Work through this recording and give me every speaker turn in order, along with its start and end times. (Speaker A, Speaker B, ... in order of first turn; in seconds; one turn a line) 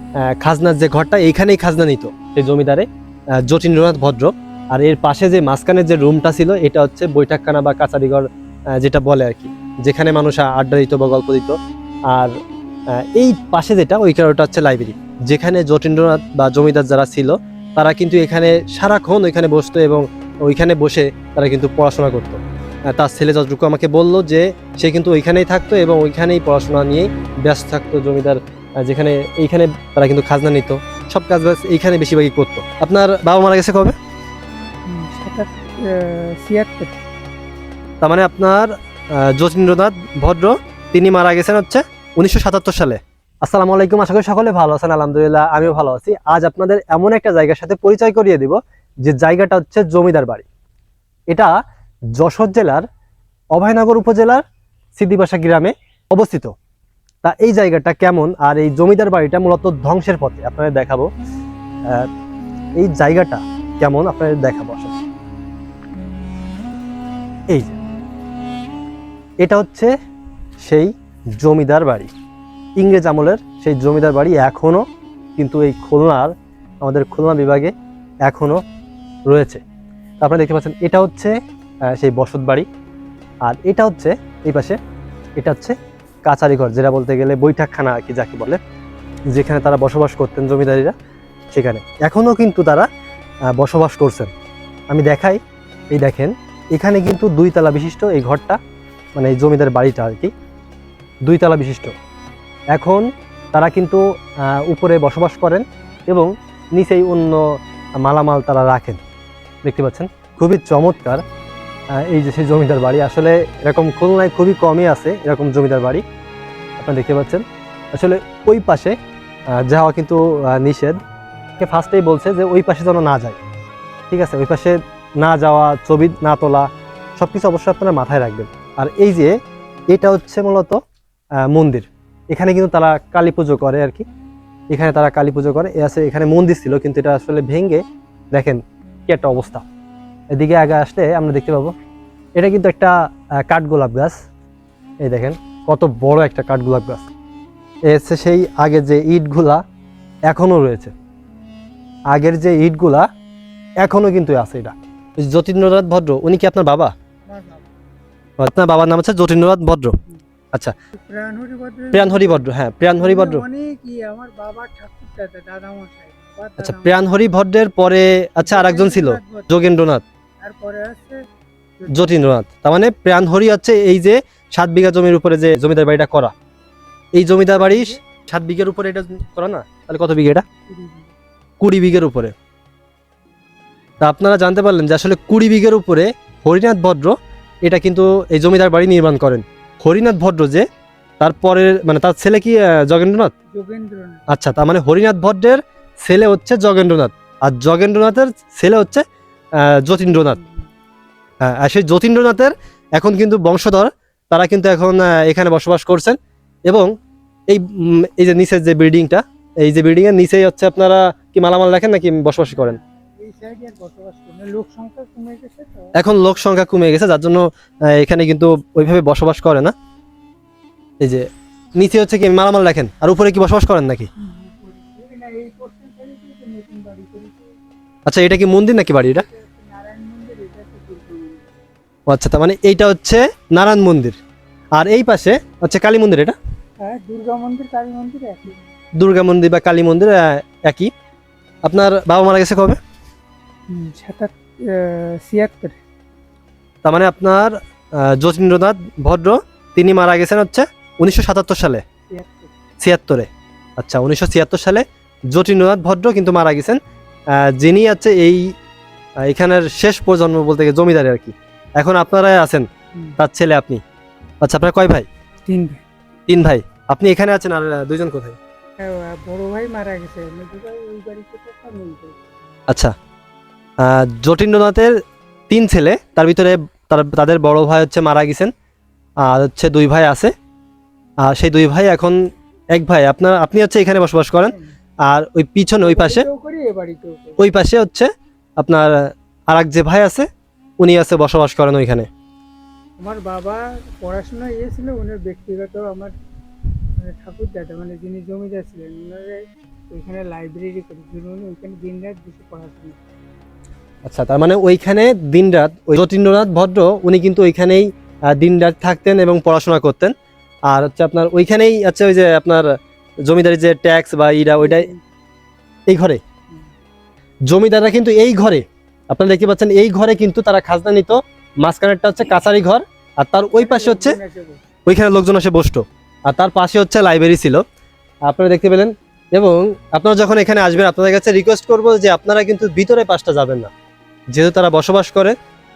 Speaker A: 0.2-2.9
Speaker A: 3.4-11.6
Speaker A: 12.1-12.4
Speaker A: 12.9-34.0
Speaker B: 34.9-37.0
Speaker A: 38.0-50.5
Speaker A: 52.1-52.8
Speaker A: 53.5-54.4
Speaker A: 55.0-56.5
Speaker A: 57.2-61.1
Speaker A: 62.8-65.0
Speaker A: 67.5-67.7
Speaker A: 69.4-69.9
Speaker A: 70.6-72.1
Speaker A: 72.8-74.8
Speaker A: 75.4-77.7
Speaker A: 78.2-78.6
Speaker A: 79.3-79.6
Speaker A: 80.2-81.3
Speaker A: 81.8-82.7
Speaker A: 83.4-84.8
Speaker A: 85.4-88.6
Speaker A: 89.3-90.9
Speaker A: 91.5-92.9
Speaker A: 93.5-94.3
Speaker A: 94.9-95.4
Speaker A: 95.9-98.6
Speaker A: 99.2-100.3
Speaker A: 101.2-101.9
Speaker A: 102.7-109.0
Speaker A: 109.6-111.2
Speaker A: 111.9-116.0
Speaker A: 116.8-119.0
Speaker A: 119.5-121.0
Speaker A: 121.6-123.4
Speaker A: 124.1-129.3
Speaker A: 129.9-130.8
Speaker A: 131.4-134.0
Speaker A: 134.7-139.6
Speaker A: 140.3-141.7
Speaker A: 142.3-144.2
Speaker A: 145.0-147.1
Speaker A: 147.8-149.6
Speaker A: 150.3-150.9
Speaker A: 152.1-153.1
Speaker A: 153.8-156.9
Speaker B: 157.2-157.7
Speaker A: 158.4-160.0
Speaker B: 160.9-162.4
Speaker A: 161.9-163.4
Speaker B: 163.0-167.1
Speaker A: 166.6-170.0
Speaker B: 168.4-169.5
Speaker B: 170.4-171.2
Speaker B: 171.8-172.2
Speaker A: 171.9-176.3
Speaker A: 177.1-180.4
Speaker B: 177.6-177.9
Speaker B: 180.7-181.1
Speaker A: 181.6-182.3
Speaker A: 184.0-190.7
Speaker A: 191.2-193.3
Speaker B: 193.5-194.3
Speaker A: 194.3-199.0
Speaker A: 199.6-200.4
Speaker B: 200.2-200.7
Speaker A: 201.4-206.9
Speaker A: 207.5-212.8
Speaker B: 212.5-215.9
Speaker A: 215.9-219.7
Speaker A: 221.0-221.2
Speaker A: 221.8-224.1
Speaker B: 224.2-227.5
Speaker A: 228.1-229.2
Speaker B: 228.9-231.5
Speaker A: 232.1-234.2
Speaker A: 234.7-236.3
Speaker B: 236.8-238.6
Speaker A: 239.0-240.9
Speaker A: 241.6-242.8
Speaker B: 243.7-245.8
Speaker A: 246.8-251.8
Speaker B: 252.1-252.5
Speaker A: 252.8-256.8
Speaker A: 257.3-258.5
Speaker A: 259.2-262.7
Speaker A: 263.2-263.8
Speaker A: 264.4-265.1
Speaker B: 265.5-265.8
Speaker A: 266.3-268.4
Speaker B: 268.8-272.2
Speaker A: 273.8-274.9
Speaker A: 275.5-278.5
Speaker A: 279.2-280.3
Speaker A: 281.2-282.2
Speaker A: 282.7-284.5
Speaker A: 285.1-286.2
Speaker B: 285.8-287.5
Speaker A: 287.4-289.0
Speaker A: 289.5-290.3
Speaker A: 290.8-292.1
Speaker B: 293.0-296.1
Speaker B: 296.6-303.0
Speaker A: 304.0-310.1
Speaker A: 310.7-312.7
Speaker A: 313.2-314.9
Speaker B: 314.6-315.1
Speaker A: 315.9-316.2
Speaker A: 317.5-324.2
Speaker B: 323.6-324.6
Speaker A: 324.9-327.6
Speaker A: 328.2-333.7
Speaker A: 334.3-335.4